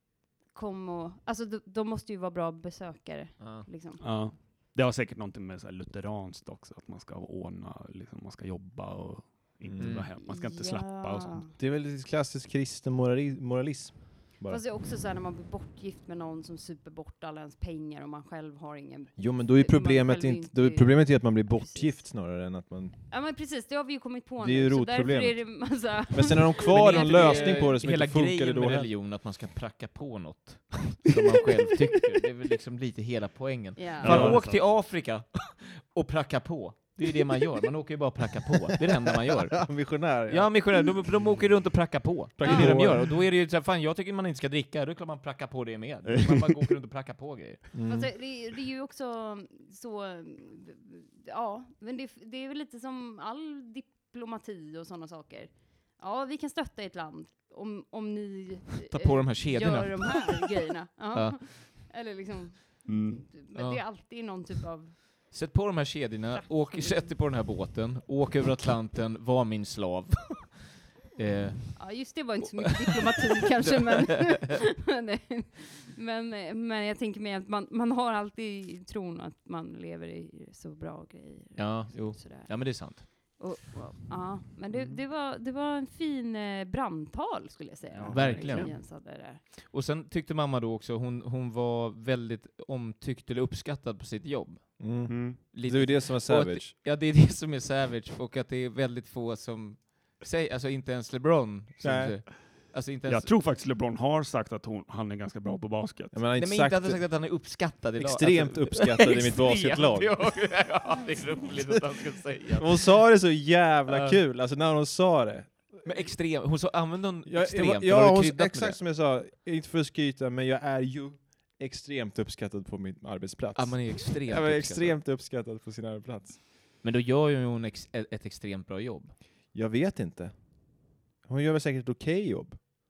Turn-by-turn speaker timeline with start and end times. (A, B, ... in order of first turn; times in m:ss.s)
0:00.5-0:04.0 A
0:03.4-0:03.7 B
0:04.0-0:11.4 C
0:09.6-0:10.0 D
0:09.8-0:10.1 B
0:10.2-0:11.5 A
0:11.6-0:14.6 D
0:14.5-0:22.2 A
0:19.2-0:23.0 D
0:23.1-0:27.8 A
0:24.4-0:28.9 D
0:26.7-0:47.6 B
0:33.8-0:34.4 A
0:34.0-0:34.6 C
0:39.6-0:40.6 D
0:42.4-0:43.2 D
0:42.4-0:42.8 A
0:47.7-0:48.1 D
0:47.9-1:05.3 A
0:58.9-1:00.4 B
1:01.1-1:01.4 B
1:02.9-1:03.3 C
1:03.5-1:03.9 B
1:05.3-1:12.3 B
1:06.3-1:07.2 A
1:11.8-1:29.4 A
1:13.6-1:14.4 B
1:21.6-1:23.1 B
1:28.0-1:28.6 D
1:28.0-1:28.7 C
1:28.1-1:43.3 B
1:34.8-1:36.7 D
1:35.1-1:35.4 C
1:41.8-1:42.2 D
1:43.1-1:46.2 C
1:46.1-1:50.6 D
1:46.4-1:53.0 B
1:52.6-1:56.1 D
1:53.9-1:54.2 B
1:55.8-1:58.8 B
1:57.3-2:06.4 D
2:03.6-2:05.0 B
2:06.8-2:09.2 B
2:09.5-2:12.6 D